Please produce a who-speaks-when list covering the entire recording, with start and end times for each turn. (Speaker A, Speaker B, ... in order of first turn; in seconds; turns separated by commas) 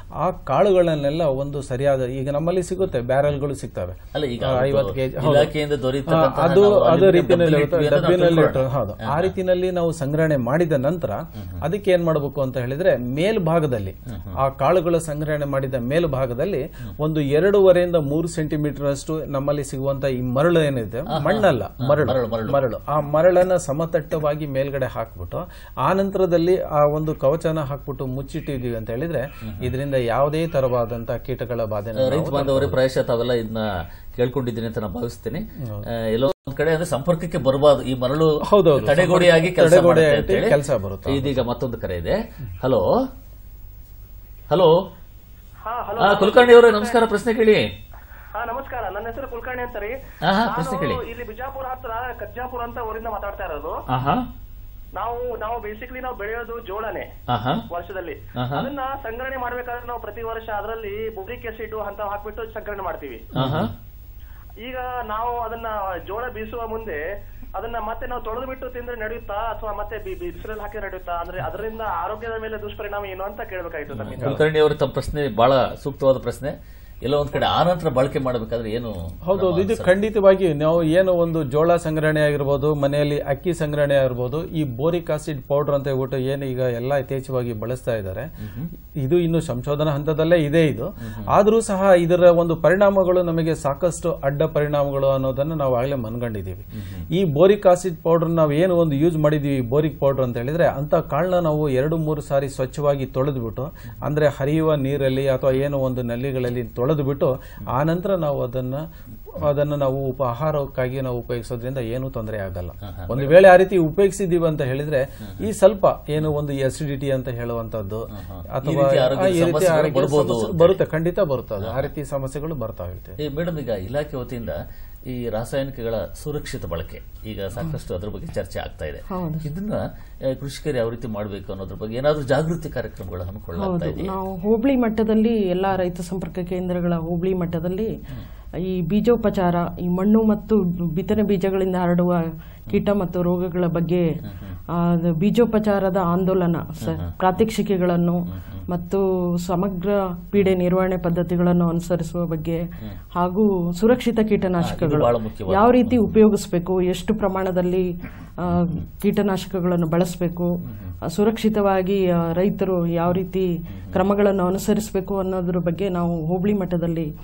Speaker A: 0.2-5.5, Speaker B: 4.1-9.3, Speaker A: 6.1-32.8, Speaker B: 21.2-22.6, Speaker B: 32.0-40.6, Speaker A: 38.4-41.5, Speaker B: 41.1-42.9, Speaker C: 45.7-47.0, Speaker B: 46.0-47.6, Speaker C: 48.4-49.9, Speaker B: 50.2-51.0, Speaker C: 50.5-53.8, Speaker B: 53.9-54.2, Speaker C: 55.0-57.1, Speaker B: 57.3-57.6, Speaker C: 57.7-63.2, Speaker B: 58.4-58.7, Speaker A: 63.4-63.7, Speaker B: 63.4-63.7, Speaker C: 64.6-67.0, Speaker C: 67.6-74.2, Speaker B: 73.9-76.5, Speaker A: 74.2-74.4, Speaker B: 77.0-79.9, Speaker A: 79.3-88.3, Speaker B: 88.4-88.7, Speaker A: 89.0-123.2, Speaker B: 112.9-113.3, Speaker B: 118.2-120.8, Speaker B: 121.6-121.9, Speaker B: 123.2-134.1, Speaker D: 129.1-129.5, Speaker D: 133.6-137.9, Speaker D: 138.7-144.1, Speaker B: 144.3-144.6, Speaker D: 144.8-152.6, Speaker B: 146.8-147.1, Speaker B: 148.3-148.6, Speaker D: 153.2-157.9, Speaker B: 154.6-156.2, Speaker D: 158.4-160.5, Speaker B: 158.5-158.8, Speaker B: 160.7-160.9, Speaker D: 161.1-167.1, Speaker B: 163.7-164.0